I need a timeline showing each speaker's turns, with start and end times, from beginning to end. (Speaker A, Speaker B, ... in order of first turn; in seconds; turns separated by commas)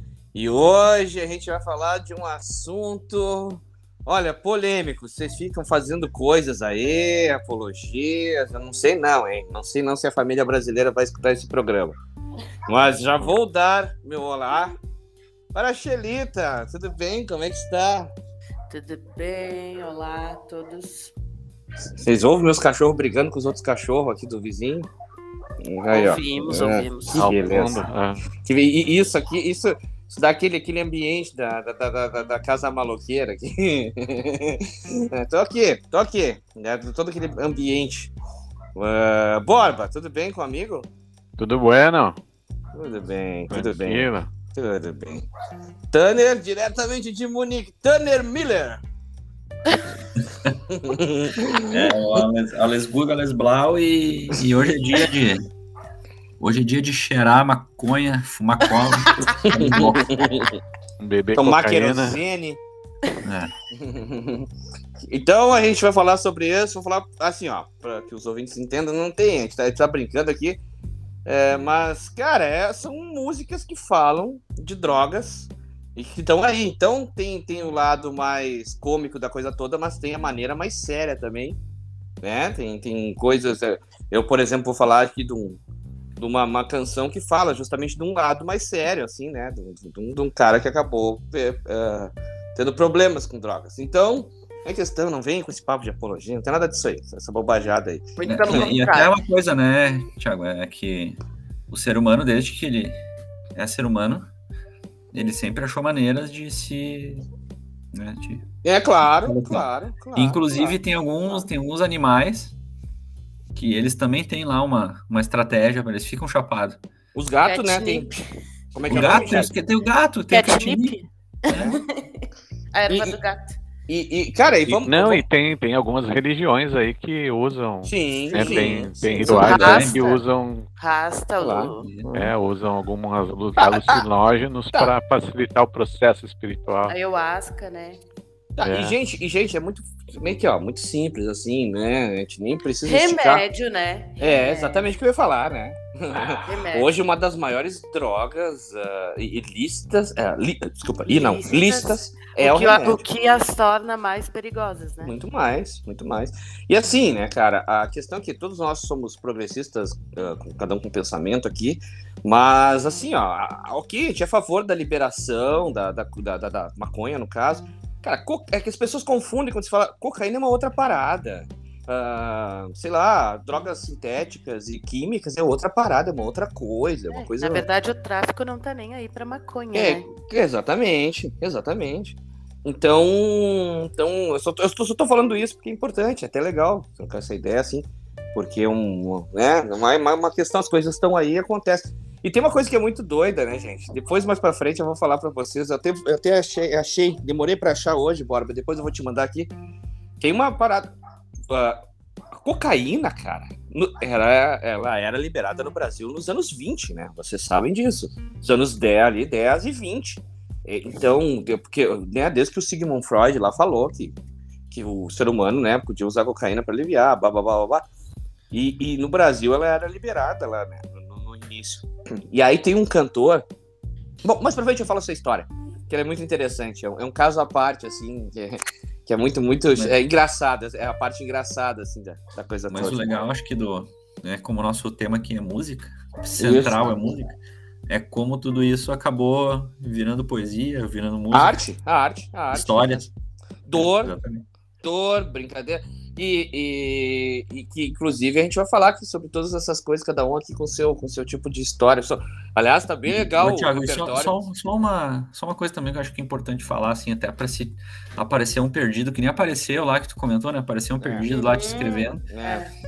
Speaker A: 0.3-12.0, Speaker A: 12.7-14.7, Speaker A: 15.5-18.1, Speaker B: 18.7-21.1, Speaker A: 22.0-24.9, Speaker A: 25.6-27.8, Speaker B: 25.9-27.3, Speaker C: 27.2-28.2, Speaker A: 28.4-38.1, Speaker A: 38.8-40.9, Speaker C: 41.4-42.2, Speaker A: 42.7-45.3, Speaker C: 43.5-44.3, Speaker A: 45.9-48.8, Speaker A: 50.7-51.9, Speaker D: 51.7-55.5, Speaker D: 56.4-60.4, Speaker A: 59.4-60.5, Speaker C: 61.0-62.2, Speaker A: 61.4-62.6, Speaker D: 63.2-63.5, Speaker A: 63.7-64.5, Speaker A: 65.0-70.6, Speaker A: 71.2-81.6, Speaker A: 82.2-85.6, Speaker A: 86.2-98.6, Speaker B: 98.2-99.1, Speaker D: 98.2-101.2, Speaker D: 101.7-103.0, Speaker D: 103.5-104.3, Speaker D: 105.1-107.2, Speaker D: 107.9-108.4, Speaker A: 108.6-110.8, Speaker D: 109.2-112.5, Speaker D: 113.5-116.8, Speaker A: 117.1-118.1, Speaker B: 117.4-118.3, Speaker A: 118.7-119.5, Speaker D: 118.9-121.0, Speaker B: 120.3-123.6, Speaker D: 121.5-121.8, Speaker A: 122.9-123.1, Speaker A: 123.9-125.2, Speaker C: 124.7-130.7, Speaker A: 127.8-130.1, Speaker B: 128.3-130.2, Speaker D: 129.3-130.0, Speaker B: 130.8-131.8, Speaker A: 131.4-132.3, Speaker C: 132.1-136.9, Speaker A: 133.6-134.0, Speaker B: 136.9-138.0, Speaker A: 138.6-143.4, Speaker C: 138.6-139.0, Speaker B: 142.8-145.0, Speaker A: 144.2-153.0, Speaker B: 146.4-146.9, Speaker B: 151.1-155.1, Speaker A: 155.0-177.7, Speaker B: 177.1-180.1, Speaker A: 179.7-199.5, Speaker A: 200.2-200.9, Speaker A: 201.5-201.8, Speaker A: 202.3-214.1, Speaker A: 214.7-217.8, Speaker A: 218.5-223.4, Speaker A: 224.2-233.2, Speaker D: 232.7-237.3, Speaker A: 236.4-237.2, Speaker D: 237.9-241.6, Speaker A: 241.3-243.0, Speaker D: 242.5-243.1, Speaker D: 243.7-244.4, Speaker A: 243.7-244.1, Speaker A: 244.8-254.4, Speaker D: 253.1-262.2, Speaker A: 261.0-261.3, Speaker B: 261.3-262.7, Speaker A: 262.3-262.7